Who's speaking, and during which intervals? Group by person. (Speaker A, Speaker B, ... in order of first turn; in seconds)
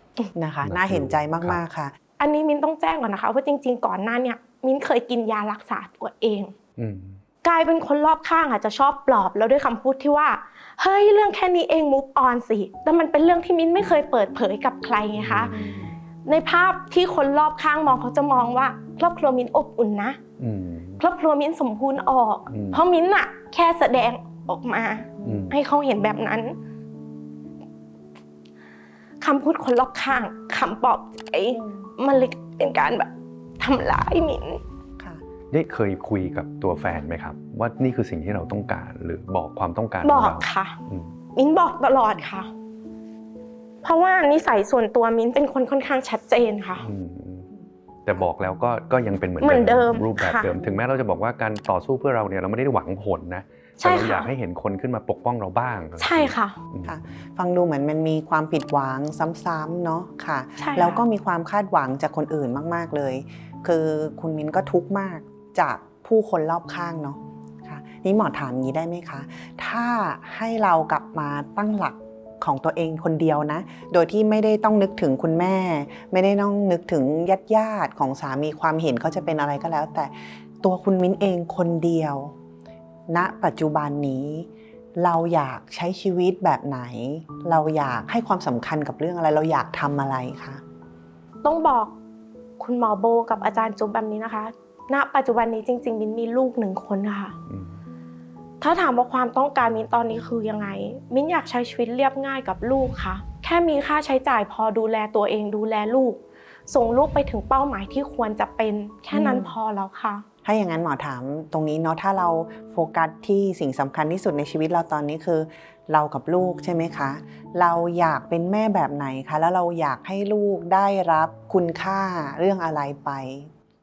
Speaker A: 0.3-1.9, 15.5-15.9, 25.2-25.5, 31.5-31.9, 56.9-82.3, 83.1-90.6, 109.1-109.5, 110.4-123.5
Speaker B: 0.7-1.6, 6.8-7.2, 15.2-15.6, 20.4-21.0, 22.5-22.8, 25.2-25.5, 35.5-41.1, 46.8-47.5, 48.1-57.0
Speaker C: 2.2-6.5, 7.4-15.6, 16.3-20.2, 21.0-26.6, 29.2-34.6, 40.0-40.8, 41.4-42.5, 43.8-46.9, 49.4-50.6, 53.8-54.3, 56.0-56.6, 60.6-61.0, 91.4-92.0, 92.6-97.3, 98.6-110.2